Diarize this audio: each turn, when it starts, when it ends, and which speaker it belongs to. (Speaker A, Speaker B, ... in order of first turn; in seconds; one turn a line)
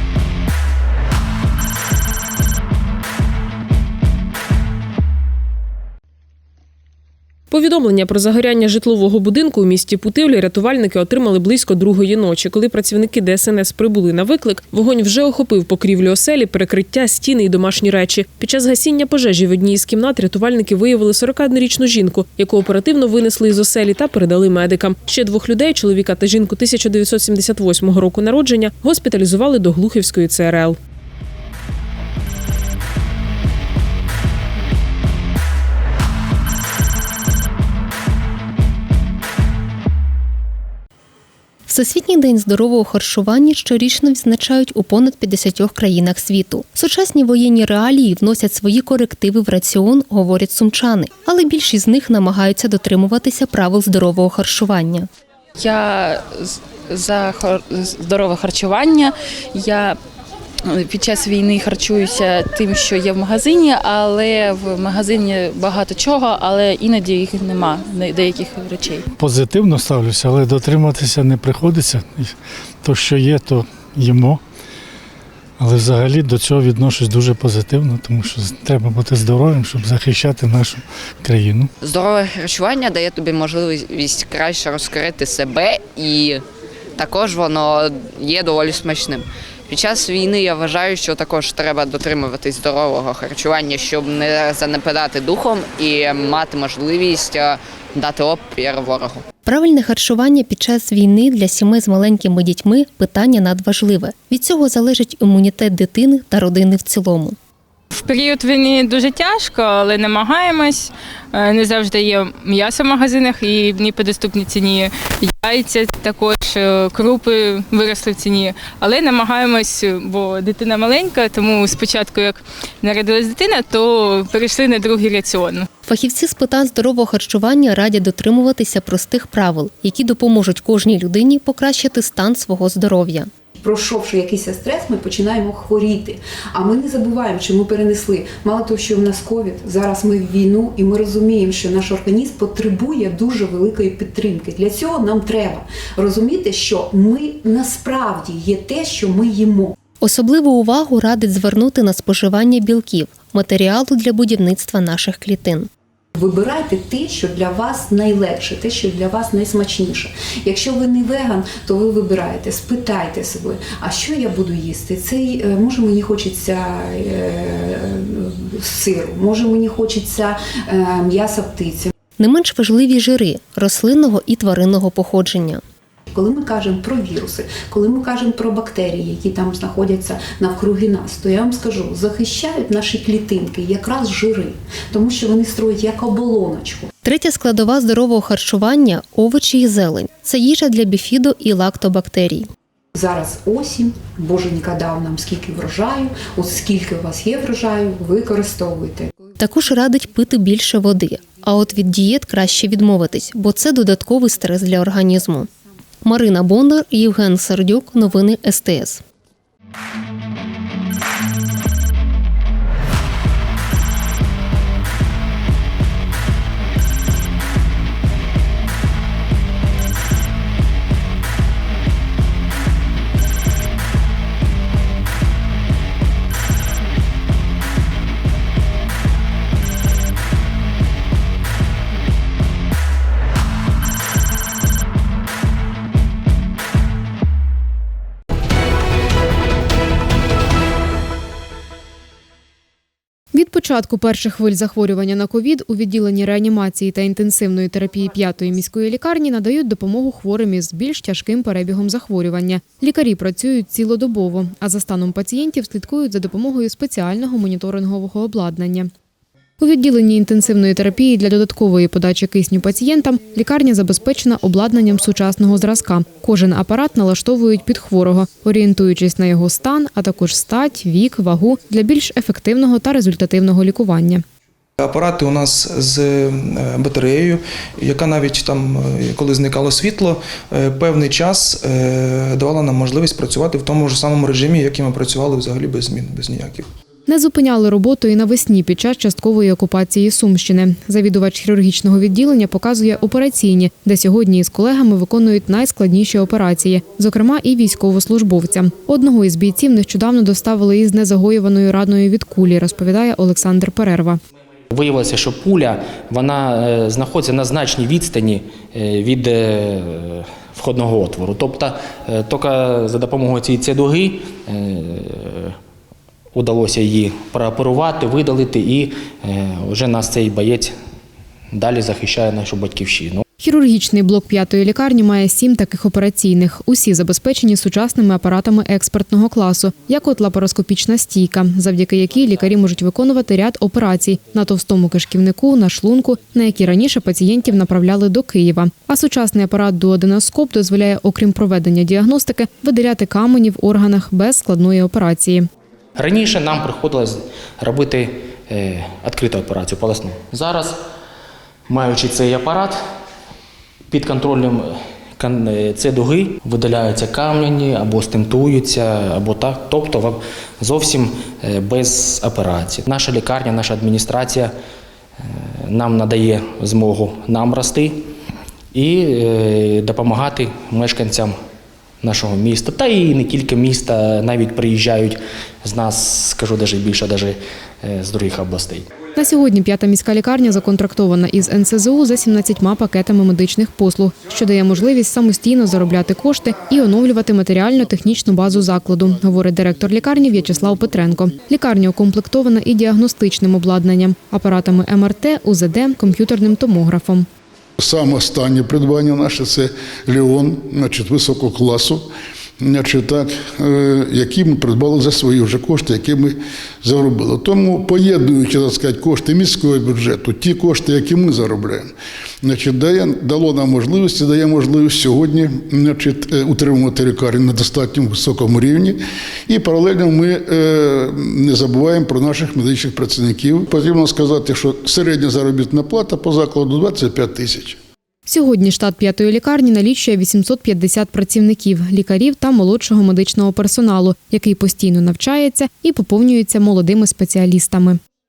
Speaker A: 7.5-30.8
Speaker B: 41.7-55.1
Speaker C: 55.6-60.0
Speaker C: 60.7-69.0
Speaker D: 69.2-74.4
Speaker D: 75.6-81.7
Speaker E: 81.8-86.4
Speaker E: 87.0-99.2
Speaker B: 99.5-107.4
Speaker F: 108.0-125.7
Speaker B: 125.9-133.3
Speaker G: 133.6-149.8
Speaker B: 150.0-155.7
Speaker G: 156.2-171.9
Speaker B: 172.2-175.6
Speaker G: 176.1-186.9
Speaker B: 187.0-192.5
Speaker G: 192.9-199.1
Speaker B: 199.4-205.5
Speaker B: 206.0-209.0
Speaker H: 243.3-258.9
Speaker H: 259.6-274.2
Speaker I: 274.8-286.7
Speaker H: 287.1-304.2
Speaker J: 304.7-315.5
Speaker J: 316.3-320.7
Speaker J: 321.5-323.2
Speaker H: 323.4-345.5
Speaker J: 346.0-350.8
Speaker J: 351.7-352.8
Speaker J: 353.9-364.5
Speaker J: 365.3-368.0
Speaker J: 368.7-371.3
Speaker J: 372.0-378.9
Speaker H: 379.2-397.3
Speaker K: 397.8-402.1
Speaker K: 402.6-427.8
Speaker H: 428.3-438.0